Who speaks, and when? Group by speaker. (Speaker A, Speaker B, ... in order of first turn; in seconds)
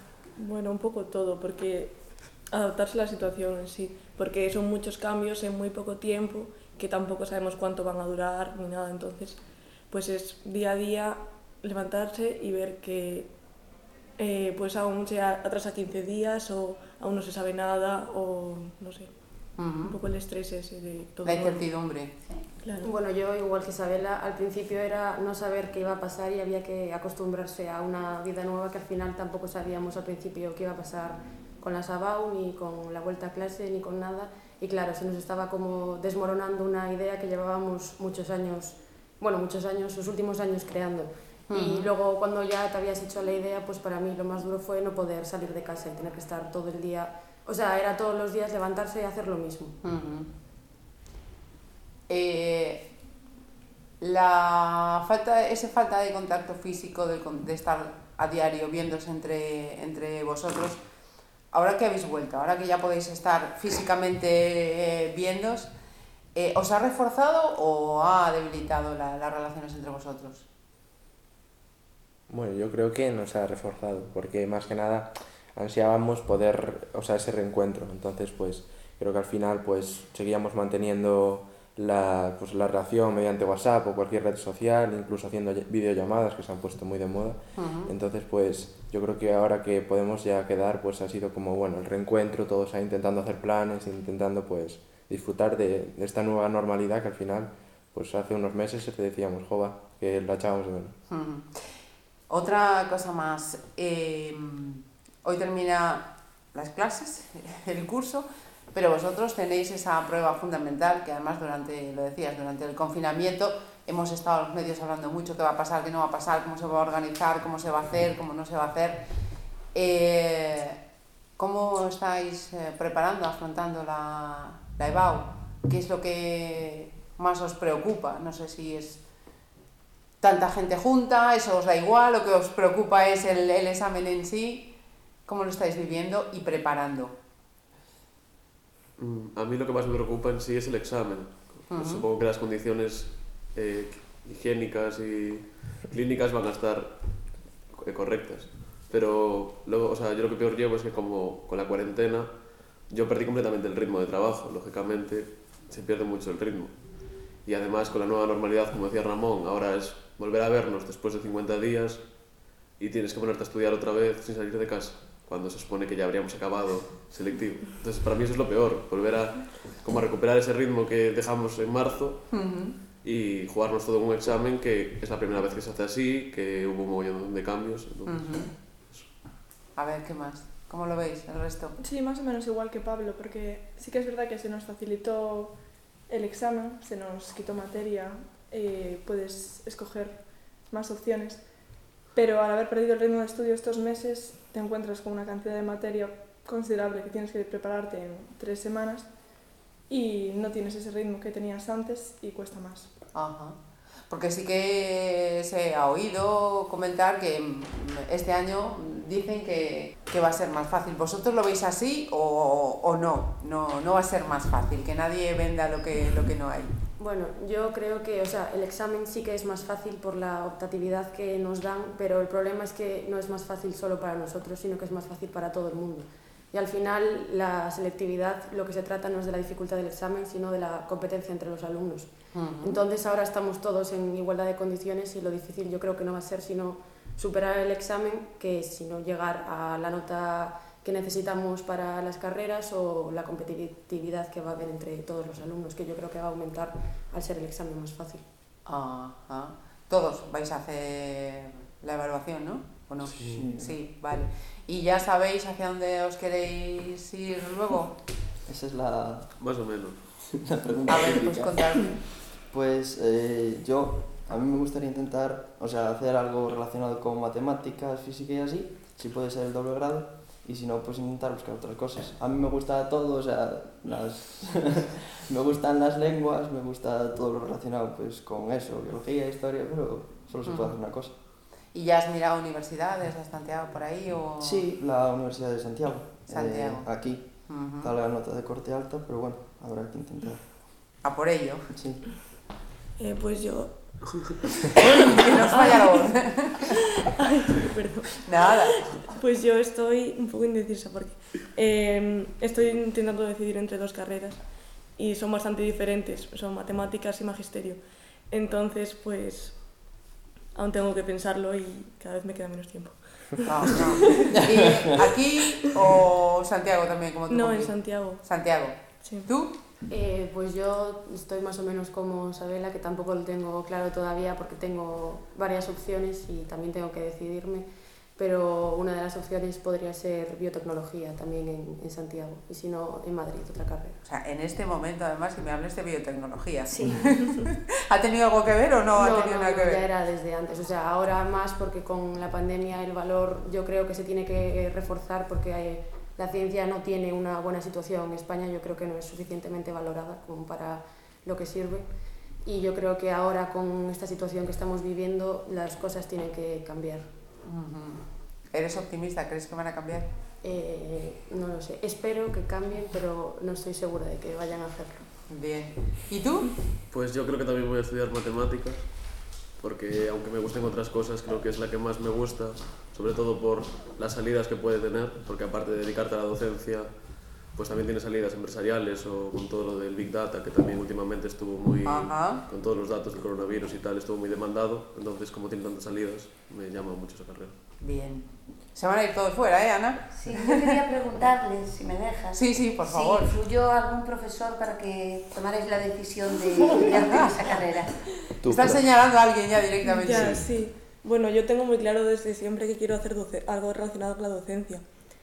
Speaker A: 0.4-13.6, 14.2-21.8, 22.6-22.9, 293.0-294.3, 295.5-296.2, 297.2-314.4, 317.3-318.3, 319.0-319.3, 400.0-404.8
Speaker B: 19.6-20.0, 21.2-22.2, 41.5-41.9, 49.8-50.3, 52.1-52.9, 54.0-60.9, 61.5-65.7, 66.3-70.5, 87.6-87.9, 101.1-101.6, 102.3-119.0, 119.7-120.8, 121.4-129.0, 130.2-134.7, 135.3-137.2, 141.7-142.0, 172.3-172.8, 178.1-178.5, 179.8-181.8, 203.1-203.6, 204.1-216.7, 232.3-232.8, 248.7-258.0, 260.9-262.1, 280.4-280.8, 281.7-284.7, 286.3-287.9, 291.0-291.7, 294.8-296.6, 298.2-299.0, 313.4-319.6, 334.0-339.9, 357.4-360.1, 365.3-366.6, 381.9-382.4, 387.8-390.8, 392.3-393.3, 397.1-397.4, 398.4-400.5
Speaker C: 22.2-22.5, 336.7-337.0, 390.1-398.0
Speaker D: 22.8-49.8, 217.0-248.2, 319.9-334.0, 339.0-351.9, 352.4-357.1, 360.4-365.1
Speaker E: 72.3-101.0, 398.4-398.8
Speaker F: 139.0-179.1, 253.2-253.4, 259.4-260.5, 366.9-387.6
Speaker G: 181.8-202.9
Speaker H: 253.2-253.8, 258.5-259.3, 260.2-281.2, 284.4-291.0, 291.7-292.0, 314.3-315.0